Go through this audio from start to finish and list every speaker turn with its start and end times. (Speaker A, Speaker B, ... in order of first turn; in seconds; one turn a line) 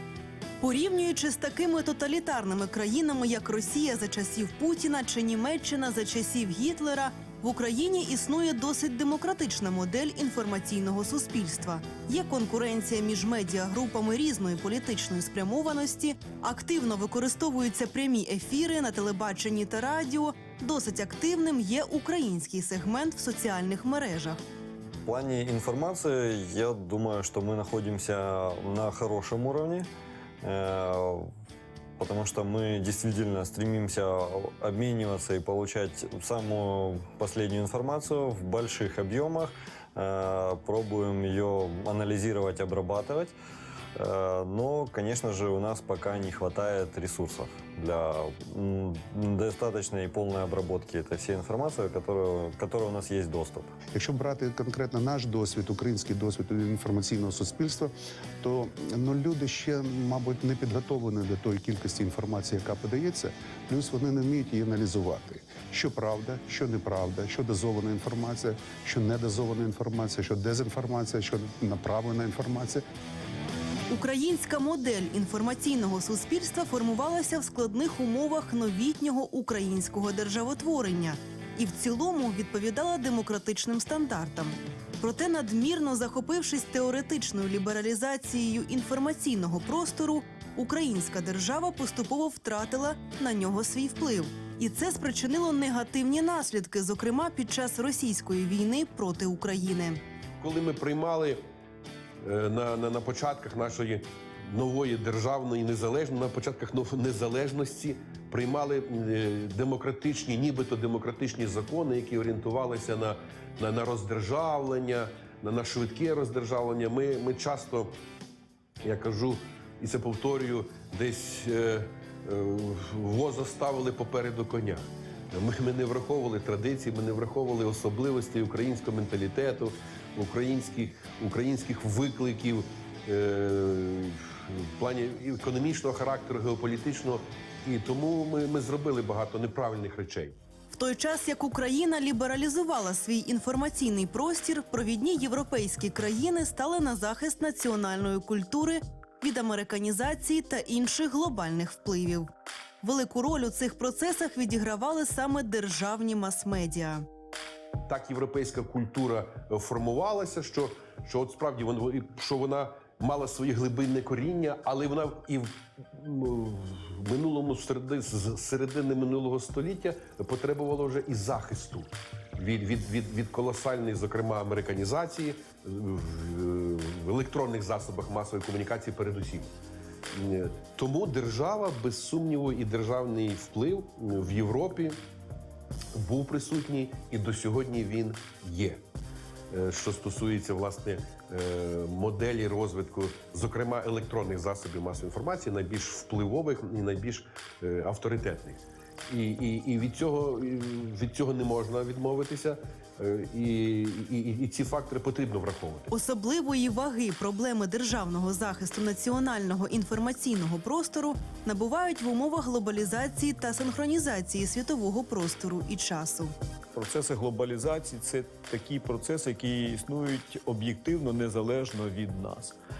Speaker A: 0.6-24.4
Speaker B: 25.1-29.9
Speaker B: 30.4-31.3
Speaker B: 32.0-43.4
Speaker B: 44.0-57.4
Speaker C: 54.8-55.2
Speaker C: 56.8-57.9
Speaker C: 58.4-72.8
Speaker B: 62.7-63.1
Speaker A: 73.9-100.0
Speaker D: 100.4-101.4
Speaker D: 102.2-117.9
Speaker D: 118.8-140.3
Speaker A: 140.7-152.3
Speaker A: 152.8-157.1
Speaker D: 157.9-179.5
Speaker D: 180.1-185.0
Speaker D: 185.9-188.8
Speaker D: 189.5-205.9
Speaker A: 205.9-216.3
Speaker E: 216.7-222.6